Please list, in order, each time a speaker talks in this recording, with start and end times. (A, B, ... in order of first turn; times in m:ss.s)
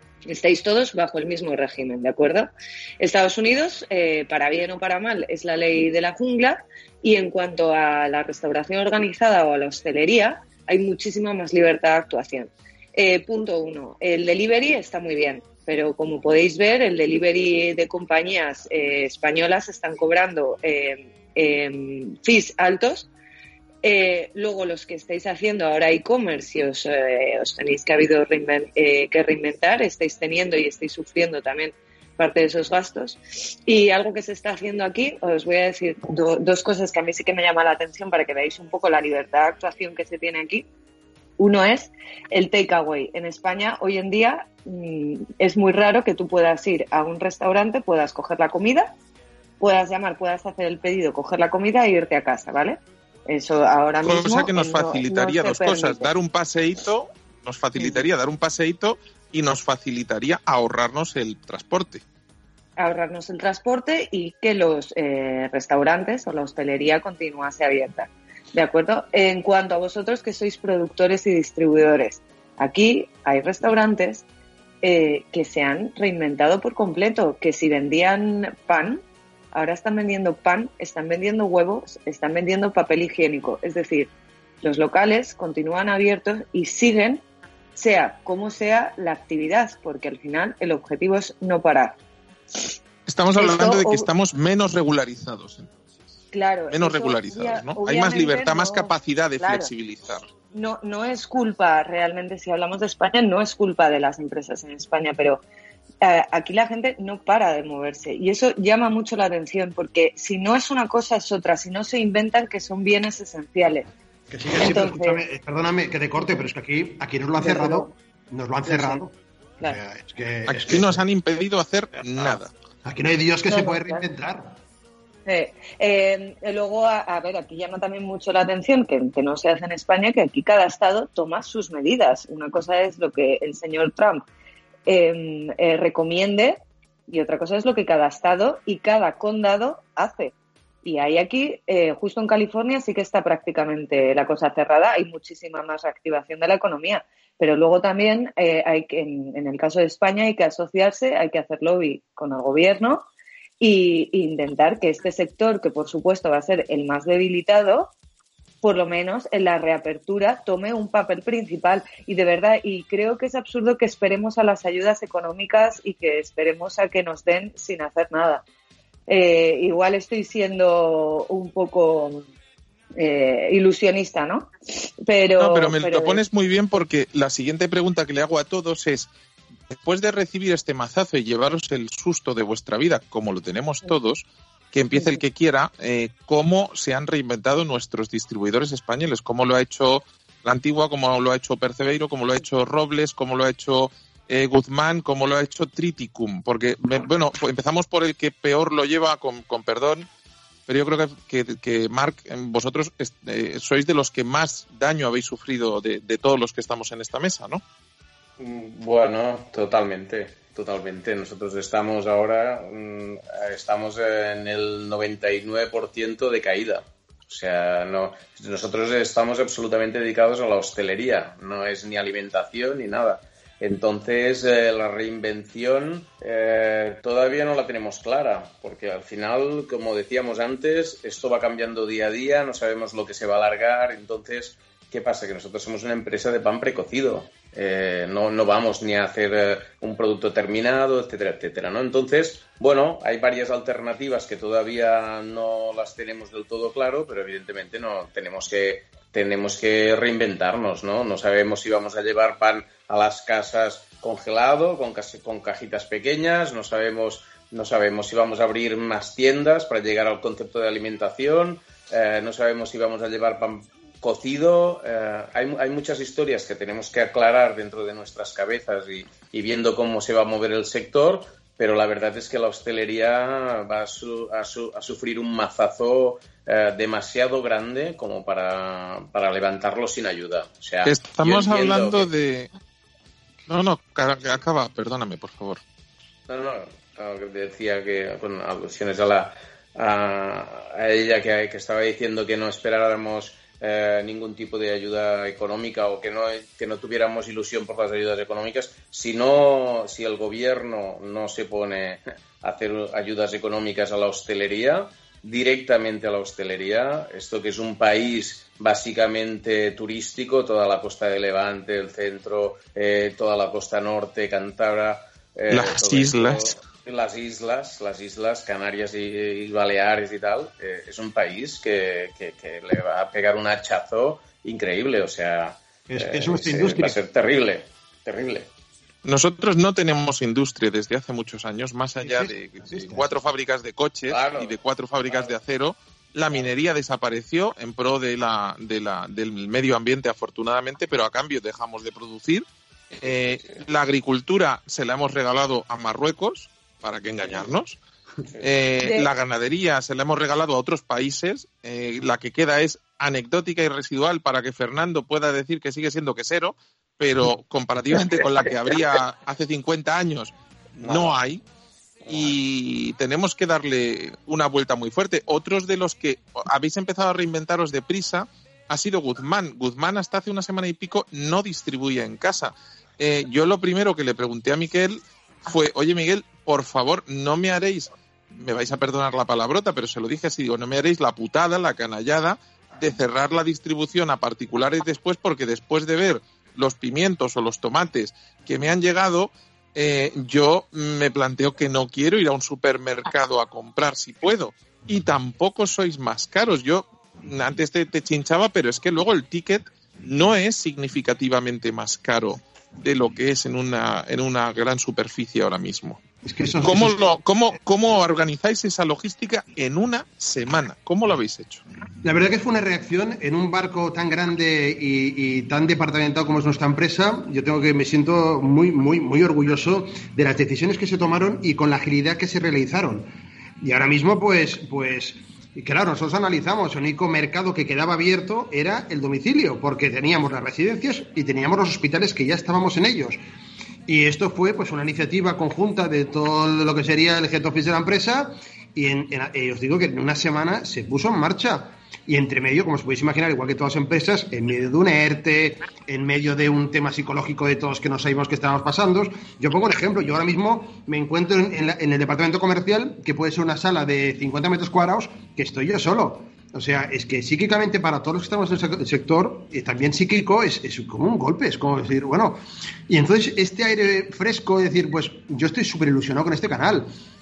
0:00.3-0:23.1 A
0:23.8-0:40.7 A
0:41.4-0:48.9 A
0:49.6-0:56.1 A
0:54.0-1:02.0 B
0:57.8-0:58.0 A
1:02.8-1:14.2 A
1:14.8-1:19.0 A
1:19.5-1:24.1 A
1:24.6-1:27.2 A
1:27.8-1:32.0 A
1:33.1-1:35.7 B
1:33.4-1:34.1 A
1:36.3-1:39.7 A
1:36.7-1:40.2 B
1:40.5-1:45.4 A
1:46.0-1:53.9 A
1:54.3-2:01.0 C
1:54.5-1:55.2 A
1:57.4-1:57.9 A
1:58.6-1:59.0 A
2:00.5-2:02.5 B
2:02.8-2:04.6 C
2:03.5-2:04.0 A
2:05.3-2:14.2 A
2:14.9-2:20.3 A
2:20.8-2:33.1 A
2:33.6-2:37.9 A
2:38.6-2:48.4 A
2:49.1-2:52.3 A
2:53.0-2:56.2 A
2:55.4-2:59.1 B
2:59.7-3:20.1 B
3:20.7-3:27.6 B
3:28.4-4:42.1 D
4:40.8-4:42.5 B
4:43.5-4:45.6 B
4:46.3-5:28.5 D
5:15.5-5:16.6 B
5:25.9-5:27.0 C
5:29.0-5:42.5 B
5:32.0-5:33.1 C
5:34.1-5:34.6 D
5:43.0-5:47.8 B
5:43.0-5:43.6 D
5:48.4-6:01.4 B
5:48.8-5:49.1 A
6:00.8-6:01.2 D
6:02.0-6:02.4 D
6:02.1-6:46.0 B
6:46.2-6:47.0 C
6:46.6-6:51.6 B
6:52.0-7:13.2 C
7:13.9-7:46.9 C